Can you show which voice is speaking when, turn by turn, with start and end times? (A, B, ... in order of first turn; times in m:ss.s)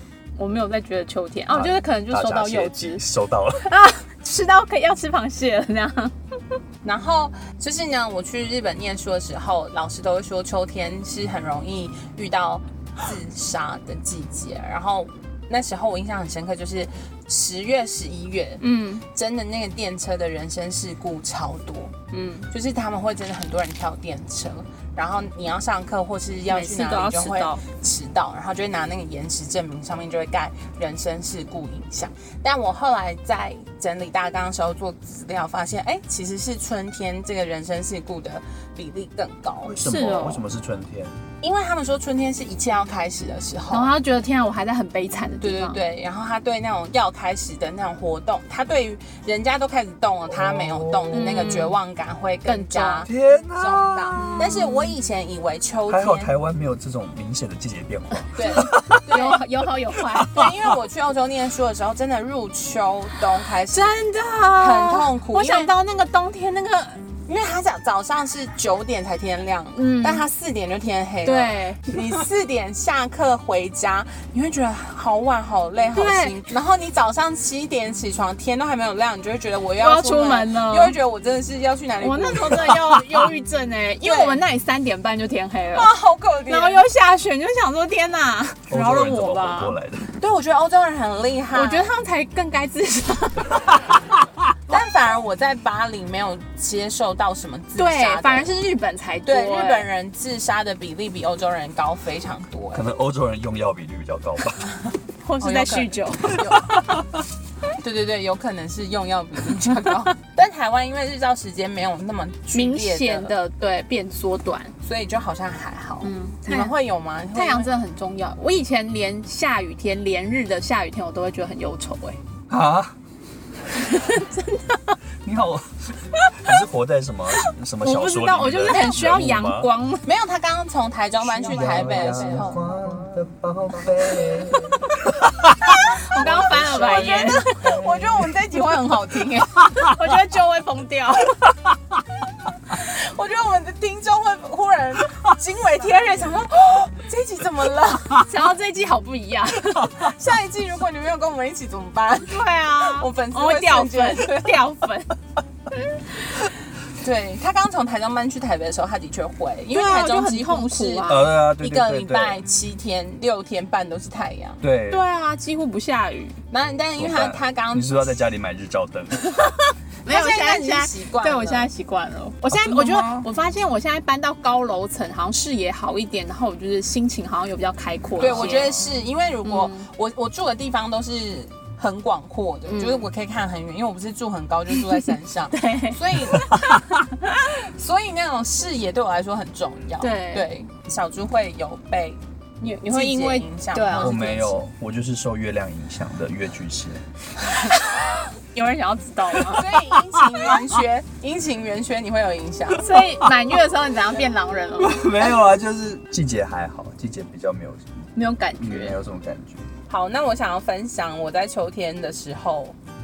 0:00.4-0:03.0 A
0:01.5-0:03.7 B
0:03.6-0:06.6 A
0:06.8-0:21.9 C
0:18.6-0:19.0 A
0:22.1-0:22.5 A
0:22.5-0:39.7 C
0:26.5-0:27.6 A
0:39.6-0:41.2 B
0:39.8-0:40.4 A
0:41.4-0:43.9 C
0:43.7-0:45.8 A
0:45.4-0:56.3 C
0:50.3-0:51.5 B
0:51.1-0:51.8 A
0:52.4-0:53.1 A
0:53.0-0:54.6 B
0:54.1-0:54.9 A
0:55.9-0:59.1 B
0:58.3-1:00.4 A
0:58.4-0:59.4 C
1:00.3-1:03.9 C
1:03.7-1:07.0 A
1:04.6-1:05.7 C
1:07.3-1:23.1 C
1:09.7-1:10.2 A
1:11.2-1:12.0 A
1:15.9-1:16.4 A
1:19.8-1:21.0 A
1:22.0-1:25.9 A
1:24.0-1:24.4 C
1:25.7-1:26.8 C
1:26.5-1:29.8 A
1:28.7-1:30.1 B
1:30.2-1:31.9 C
1:31.5-1:33.6 A
1:34.7-1:38.5 C
1:37.8-1:39.9 A
1:39.2-1:42.8 C
1:42.7-1:44.7 B
1:45.2-1:46.8 A
1:45.4-1:46.8 C
1:47.8-1:53.3 C
1:52.5-1:54.7 A
1:54.8-1:57.7 C
1:56.0-1:56.8 A
1:57.3-2:02.2 A
2:02.5-2:03.0 B
2:03.8-2:05.0 A
2:05.2-2:09.7 B
2:06.2-2:06.6 A
2:07.5-2:10.0 A
2:10.0-2:12.6 C
2:11.2-2:18.3 B
2:11.4-2:12.7 A
2:15.6-2:19.8 C
2:15.9-2:17.7 A
2:19.8-2:21.5 A
2:22.7-2:28.2 C
2:28.2-2:30.1 A
2:29.9-2:34.6 C
2:32.2-2:35.1 A
2:37.0-2:44.6 C
2:39.7-2:41.3 A
2:41.1-2:42.4 B
2:44.6-2:45.0 B
2:44.9-2:46.4 A
2:46.5-2:48.0 C
2:47.0-2:49.4 B
2:50.0-2:51.7 C
2:50.0-2:58.8 A
2:52.6-2:53.3 C
2:58.2-3:06.6 C
2:58.2-2:58.5 B
2:59.4-2:59.9 A
3:02.7-3:03.1 A
3:04.8-3:07.3 A
3:07.6-3:12.2 C
3:10.0-3:10.5 A
3:12.6-3:14.5 A
3:12.9-3:14.5 C
3:13.9-3:17.0 B
3:17.6-3:19.7 A
3:19.5-3:22.9 C
3:22.8-3:25.1 A
3:24.8-3:28.0 B
3:28.2-3:29.0 A
3:28.6-3:29.7 B
3:29.9-3:32.8 C